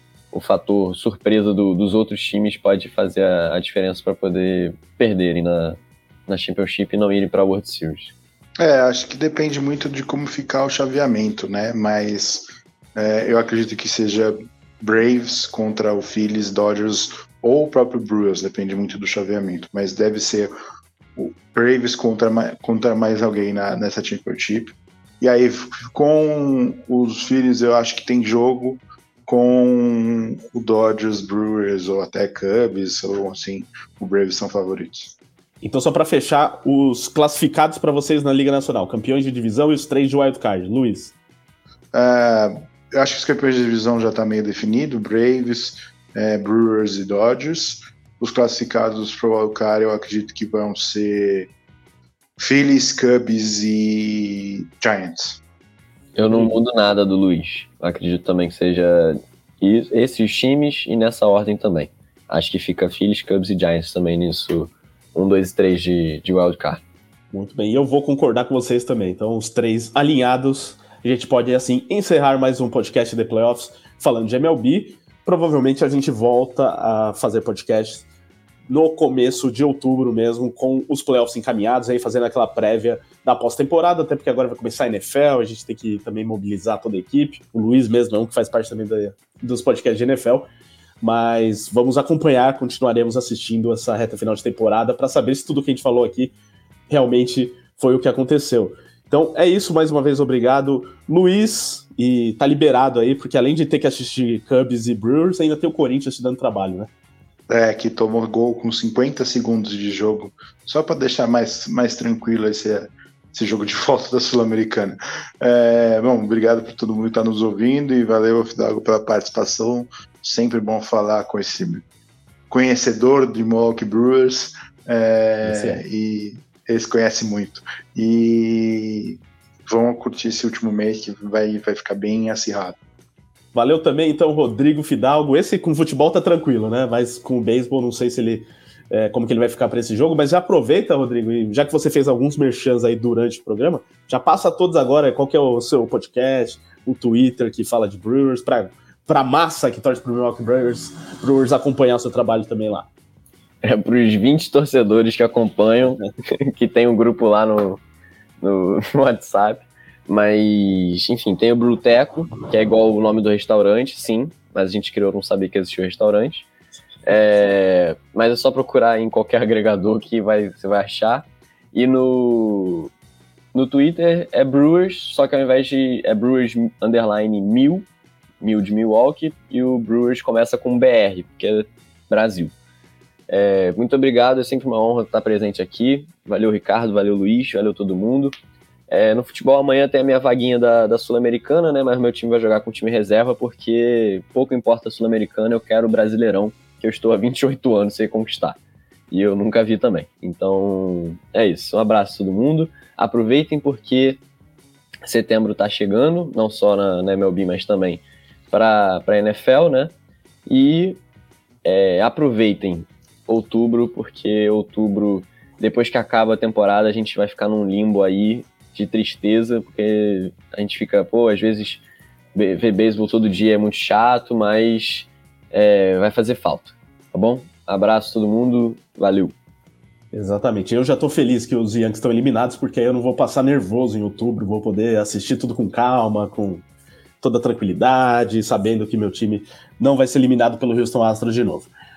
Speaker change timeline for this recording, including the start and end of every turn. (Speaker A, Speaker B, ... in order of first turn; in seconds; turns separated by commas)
Speaker A: 0.3-8.1, Speaker B: 8.6-20.5, Speaker B: 21.1-35.1, Speaker C: 35.6-41.1, Speaker B: 41.9-51.5, Speaker B: 52.4-55.4, Speaker A: 56.1-66.8, Speaker C: 67.3-78.0, Speaker C: 78.7-90.5, Speaker C: 91.0-96.3, Speaker C: 96.9-106.9, Speaker B: 107.5-121.8, Speaker B: 122.5-132.8, Speaker C: 125.4-125.8, Speaker C: 133.5-152.9, Speaker A: 153.6-157.8, Speaker A: 158.4-166.5, Speaker A: 167.1-172.9, Speaker A: 173.5-177.9, Speaker A: 178.4-182.5, Speaker A: 183.3-188.3, Speaker A: 188.9-198.6, Speaker A: 199.1-204.2, Speaker A: 205.1-209.9, Speaker A: 210.4-211.0, Speaker A: 211.6-221.8, Speaker A: 222.3-229.3, Speaker C: 230.1-236.6, Speaker C: 237.2-241.7